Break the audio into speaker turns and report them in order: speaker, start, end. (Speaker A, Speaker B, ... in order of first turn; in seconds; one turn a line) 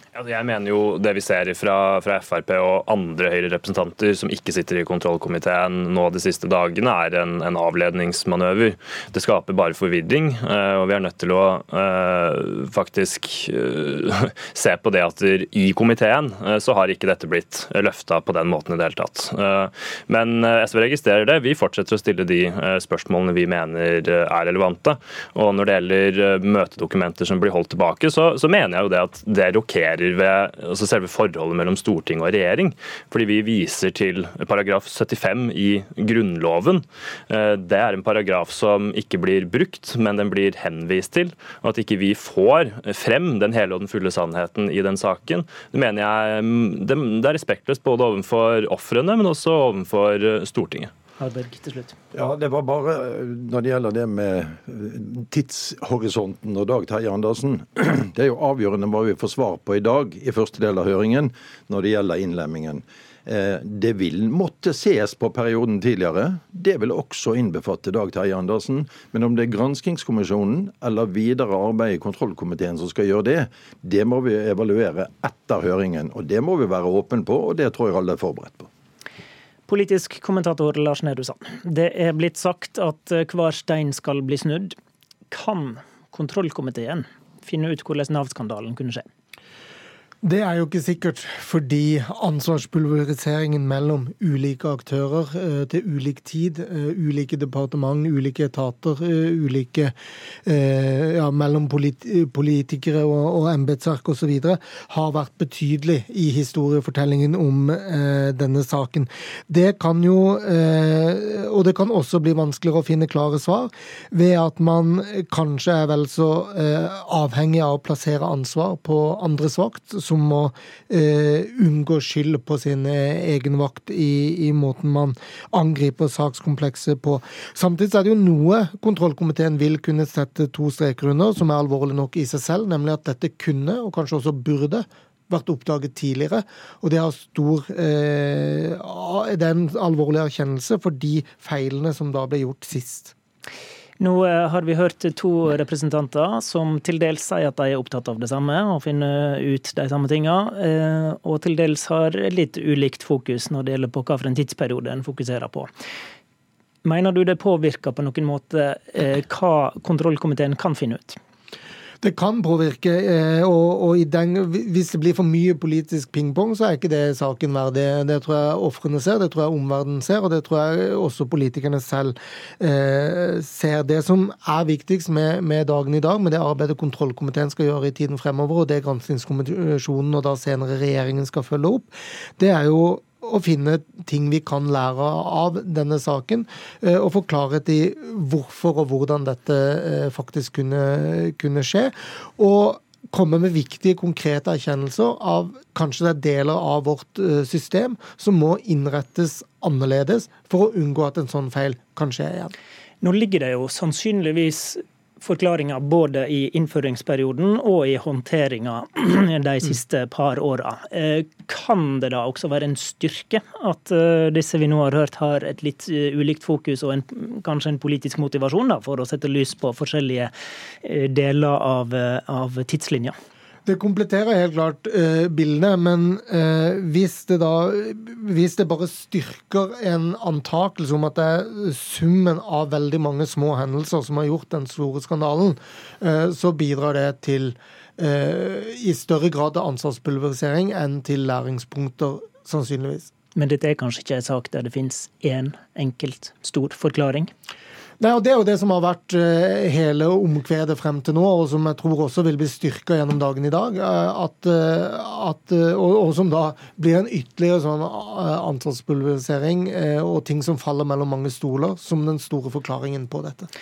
Speaker A: 0.1-50.9
Speaker B: 51.2-51.9
Speaker C: 52.1-78.7
Speaker B: 79.7-84.7
Speaker B: 85.3-89.0
Speaker D: 90.2-99.9
Speaker D: 100.5-143.1
Speaker B: 144.0-155.7
Speaker B: 156.8-161.2
Speaker D: 162.0-202.5
Speaker B: 203.0-220.3
Speaker B: 220.8-223.1
Speaker D: 223.7-243.1
Speaker B: 243.3-247.3
Speaker D: 248.0-263.5